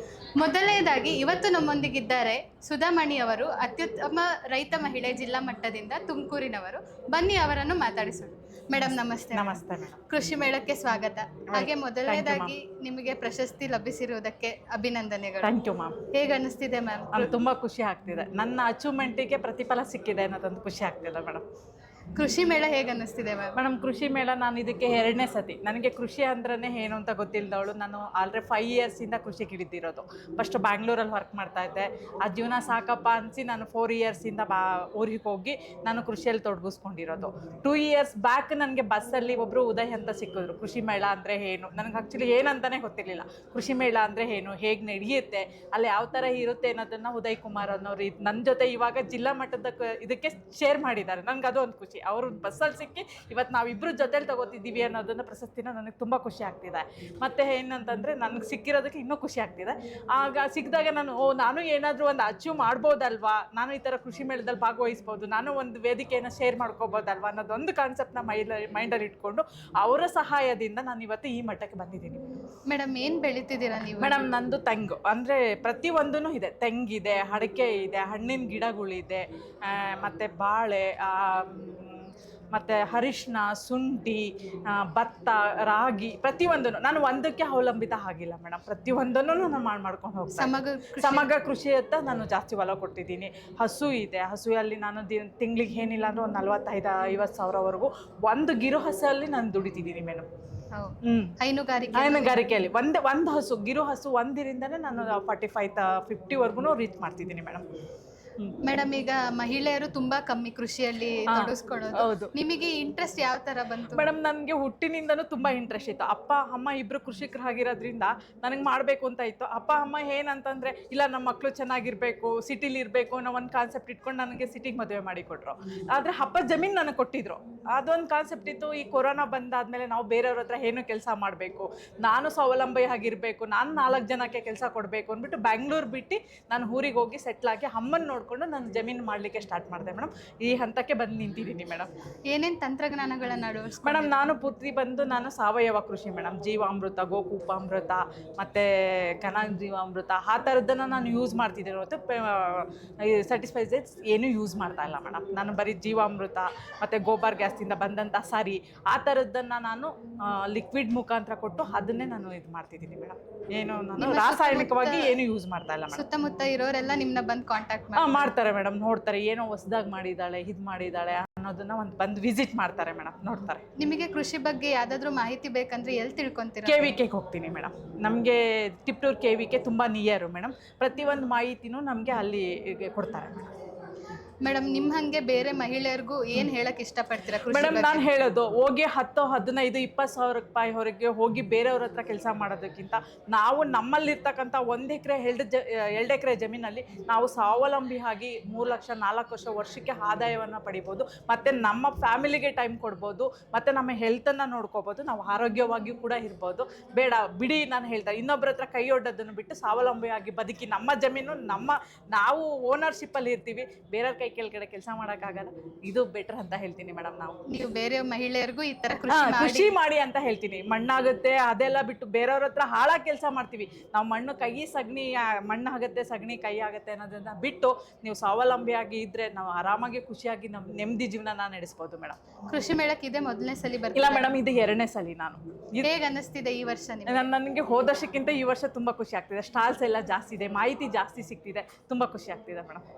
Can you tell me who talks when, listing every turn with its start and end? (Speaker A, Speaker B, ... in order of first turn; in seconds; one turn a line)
Speaker A: 0.4-15.5
Speaker B: 8.8-10.0
Speaker B: 11.5-12.6
Speaker B: 15.4-15.9
Speaker A: 16.1-17.3
Speaker B: 17.1-21.4
Speaker A: 22.2-23.6
Speaker B: 23.6-72.2
Speaker A: 72.7-74.2
Speaker B: 73.8-100.3
Speaker A: 90.3-91.3
Speaker A: 100.8-102.4
Speaker B: 101.0-101.3
Speaker B: 102.0-107.6
Speaker A: 108.6-114.1
Speaker B: 111.3-112.3
Speaker B: 113.9-141.9
Speaker A: 142.3-144.3
Speaker B: 143.8-148.7
Speaker B: 149.2-166.0
Speaker A: 164.0-165.2
Speaker A: 165.9-168.3
Speaker B: 168.0-173.6
Speaker A: 173.8-176.9
Speaker B: 176.7-183.5
Speaker A: 184.4-188.0
Speaker B: 187.5-217.3
Speaker A: 217.5-219.7
Speaker B: 219.1-232.2
Speaker A: 232.5-234.3
Speaker B: 233.9-235.9
Speaker A: 235.8-237.3
Speaker B: 237.1-242.8